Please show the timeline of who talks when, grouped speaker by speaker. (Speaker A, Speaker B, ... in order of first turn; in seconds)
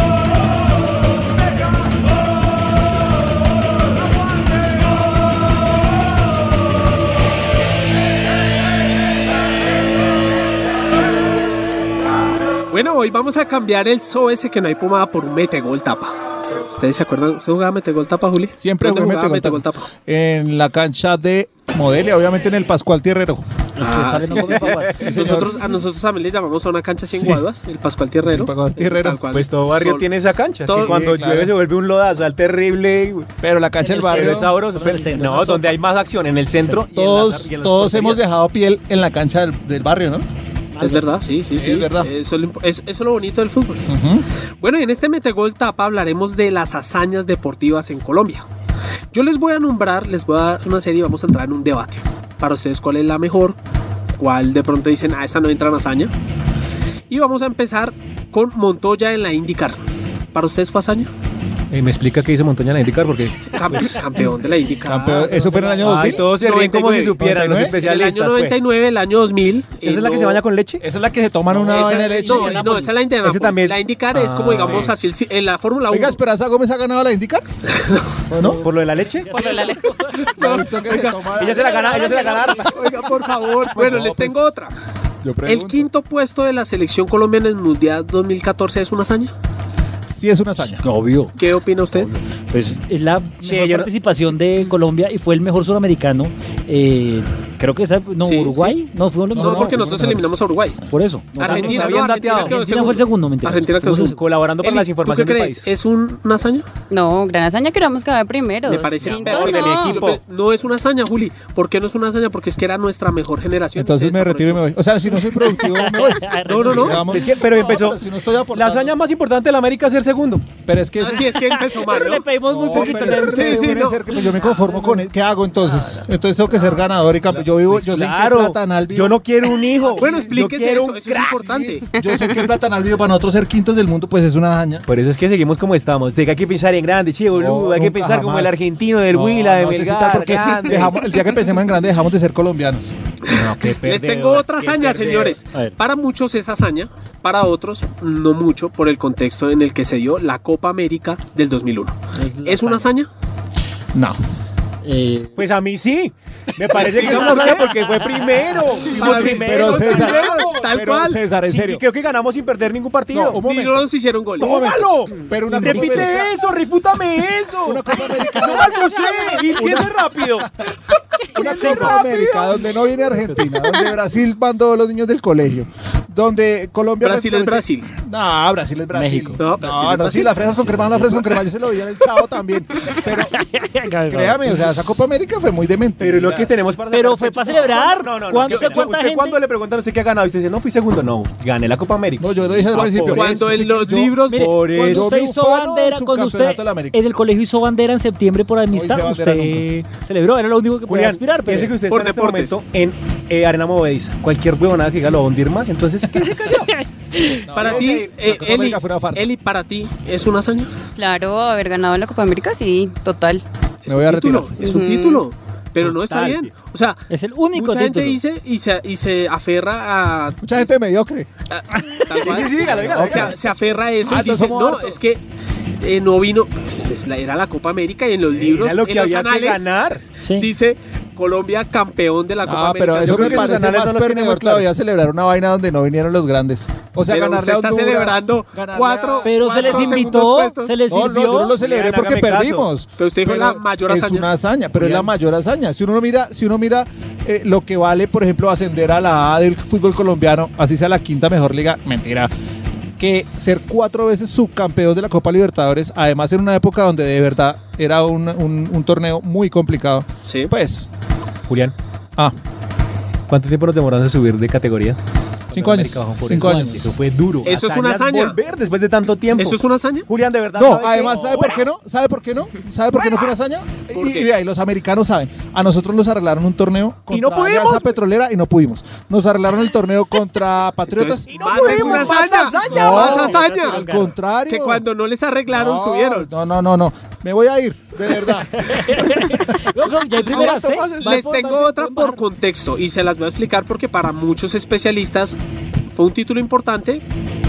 Speaker A: 12.7-19.9, 23.8-30.1, 30.6-31.1, 40.8-43.9, 44.6-48.4, 49.1-53.6, 54.1-56.1, 57.1-59.8, 60.3-61.1, 63.5-65.3, 66.1-70.4, 71.5-76.2, 77.7-78.1, 80.2-84.7, 85.5-89.3, 91.4-92.1, 98.2-98.7, 99.3-100.8, 101.4-106.7, 108.7-114.6, 116.5-117.0, 121.0-124.1, 129.9-131.9, 143.2-153.1, 156.7-157.8, 158.9-161.2, 163.4-164.7, 177.0-177.9, 179.4-181.4, 188.5-188.8, 192.8-194.5, 201.9-202.6, 207.5-210.7, 213.8-220.8, 221.5-225.2, 225.8-229.7, 230.3-233.7, 237.1-240.7, 243.0-244.3, 260.2-260.5, 267.4-268.4, 269.3-270.1, 273.9-274.3, 280.9-283.8, 284.5-286.3, 290.3-295.4, 295.9-297.0
Speaker B: 18.6-23.4, 24.9-25.6, 27.1-27.4, 28.2-29.2, 30.8-31.6, 33.4-34.5, 36.9-40.2, 41.5-42.1, 43.9-44.2, 64.8-66.2, 67.2-67.7, 70.8-72.7, 74.4-74.9, 75.9-77.5, 78.3-78.6, 80.4-82.3, 85.2-85.9, 90.1-90.8, 99.3-100.8, 113.8-119.0, 120.6-121.4, 122.5-129.2, 129.8-130.4, 131.3-134.8, 137.3-142.9, 153.9-154.2, 159.1-161.8, 163.1-163.8, 164.4-166.3, 167.6-168.8, 169.5-170.5, 171.3-183.4, 184.1-186.6, 192.2-197.0, 198.7-199.7, 207.5-209.3, 213.9-214.6, 220.4-221.3, 222.7-223.3, 224.0-225.0, 232.4-240.1, 240.9-252.3, 253.0-260.9, 265.5-266.8, 270.5-284.8, 285.5-289.7, 290.2-291.4
Speaker C: 23.8-25.4, 33.8-35.8, 40.7-41.1, 65.1-66.2, 71.5-73.0, 78.3-80.4, 90.8-91.3, 91.9-99.8, 100.9-104.1, 115.4-117.2, 121.3-125.0, 152.1-152.8, 154.8-155.4, 157.0-158.6, 165.4-166.3, 171.4-172.0, 178.9-179.4, 182.9-184.6, 186.9-189.4, 194.3-201.7, 206.7-207.4, 217.1-218.2, 239.2-241.5, 282.7-284.1, 288.5-292.2
Speaker D: 24.4-24.9, 29.3-33.3, 33.9-38.2, 61.7-64.0, 65.8-68.6, 69.8-70.8, 73.2-73.8, 74.4-74.9, 78.6-79.3, 81.3-82.9, 83.7-84.3, 93.4-93.9, 101.4-102.6, 103.8-105.7, 109.0-110.2, 117.0-118.0, 118.5-120.4, 127.3-131.4, 134.9-141.0, 143.2-145.4, 155.3-160.7, 161.4-163.4, 164.4-170.7, 171.4-172.6, 186.0-193.6, 194.3-195.1, 200.9-206.8, 207.6-208.6, 215.8-216.5, 222.2-223.3, 228.4-230.0, 233.0-234.7, 241.6-242.7, 244.8-245.0, 261.5-261.7, 263.3-265.0, 265.5-271.6, 277.1-278.0, 281.3-283.7
Speaker E: 79.3-79.8, 106.9-110.0, 211.0-213.4, 214.6-215.2